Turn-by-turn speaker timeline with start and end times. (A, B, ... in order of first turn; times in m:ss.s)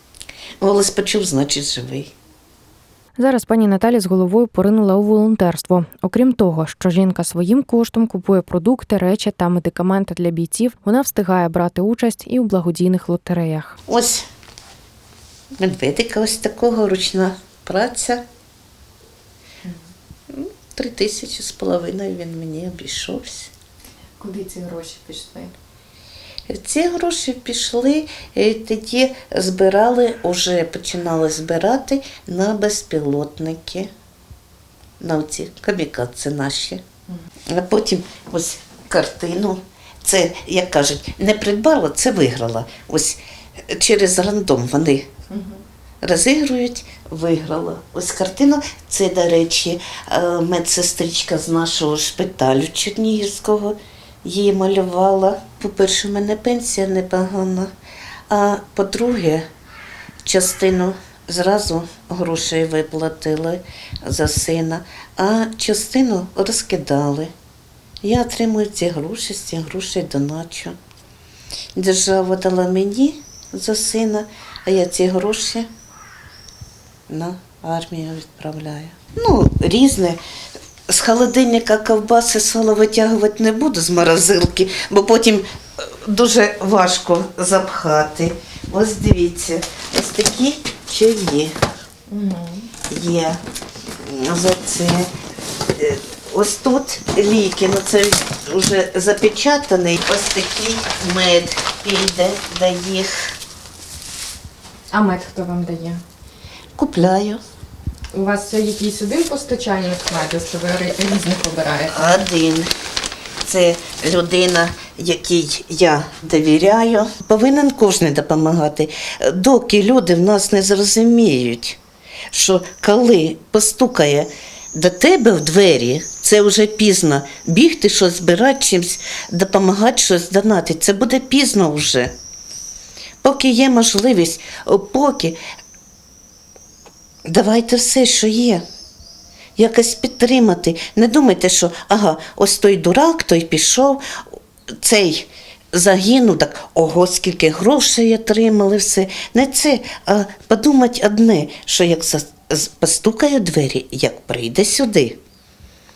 0:00.6-0:02.1 A
0:03.2-0:13.8 B
0:13.9-0:14.3 A
0:15.6-0:18.2 A
0:20.3-0:23.5 A
0:24.2-0:25.5 C
0:26.5-0:33.9 A
0:35.0-0:36.8 A
0:37.5-0:45.1 A
0:46.0-0:57.7 A
0:58.3-0:59.5 A
1:00.2-1:07.3 A
1:08.0-1:10.8 A
1:11.8-1:15.7 A
1:17.1-1:20.2 A
1:20.9-1:31.6 A
1:32.1-1:32.7 C
1:32.9-1:33.4 A
1:34.0-1:35.1 A
1:35.7-1:43.3 A
1:44.9-1:46.0 B
1:45.0-1:46.0 C
1:46.8-1:47.4 A
1:48.1-1:52.1 C
1:51.8-1:52.7 A
1:53.4-2:01.8 A
2:02.3-2:12.1 A
2:13.2-2:15.4 A
2:17.3-2:18.6 A
2:19.6-2:24.0 A
2:24.8-2:35.2 A